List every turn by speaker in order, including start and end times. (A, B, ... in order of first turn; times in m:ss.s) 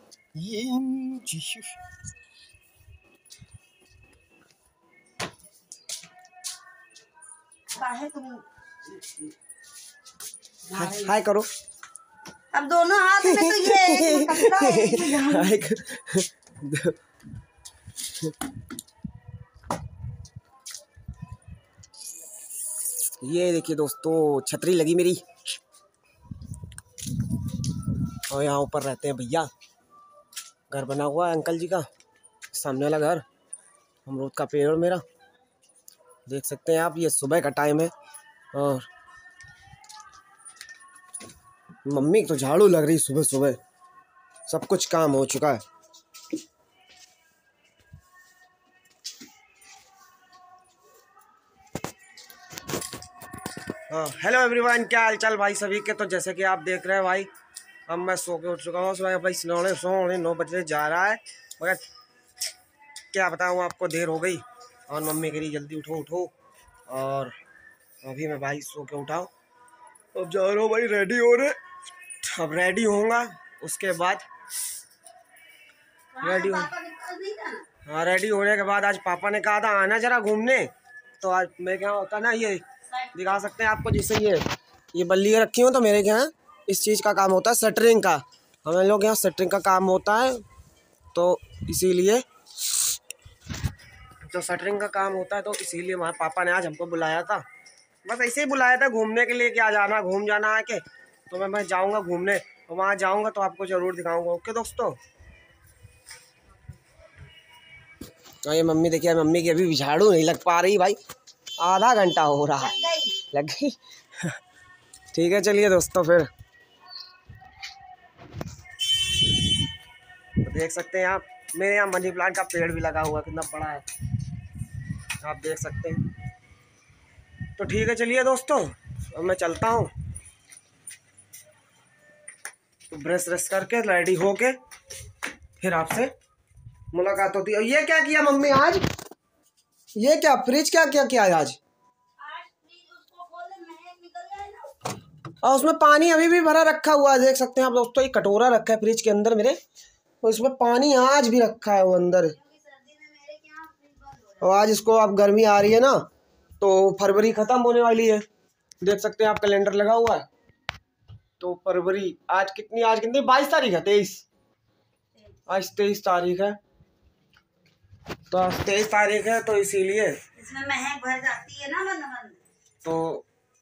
0:00.3-0:01.7 A
0:07.7-0:08.4 B
0:10.7-0:11.2 B
0:10.7-0:11.5 A
0:12.5-0:15.6 B
0:13.2-0:17.0 A
0:23.2-0:25.2 A
0:28.3-0:29.5 A
0:30.7-0:31.9 A
0:32.5-0:33.2 A
0:34.0-0:35.0 A
0:36.2-0:37.9 A
0:38.5-0:38.9 A
0:41.8-0:43.6 A
0:44.5-0:45.6 A
0:53.9-0:57.3 A
0:57.9-1:01.8 A
1:03.1-1:06.3 A
1:06.9-1:07.3 A
1:08.0-1:09.3 A
1:10.1-1:11.6 A
1:12.2-1:14.2 A
1:16.1-1:17.7 B
1:16.2-1:16.7 A
1:17.8-1:30.4 A
1:22.8-1:23.5 B
1:31.1-1:32.2 A
1:34.3-1:37.4 A
1:38.0-1:45.0 A
1:48.4-1:51.0 A
1:51.6-1:52.7 A
1:52.6-1:53.3 B
1:53.3-1:54.4 A
1:55.1-1:56.3 A
2:00.4-2:03.9 A
2:05.2-2:06.1 A
2:07.6-2:09.9 A
2:12.9-2:14.6 A
2:15.6-2:16.1 A
2:16.9-2:18.8 A
2:19.9-2:21.6 A
2:22.2-2:24.8 B
2:25.4-2:29.6 A
2:30.2-2:32.3 A
2:32.3-2:34.7 B
2:34.4-2:36.0 A
2:36.6-2:38.2 A
2:38.8-2:40.2 A
2:41.4-2:44.2 A
2:45.5-2:46.6 A
2:48.3-2:50.2 A
2:50.3-2:52.4 B
2:52.8-2:53.2 A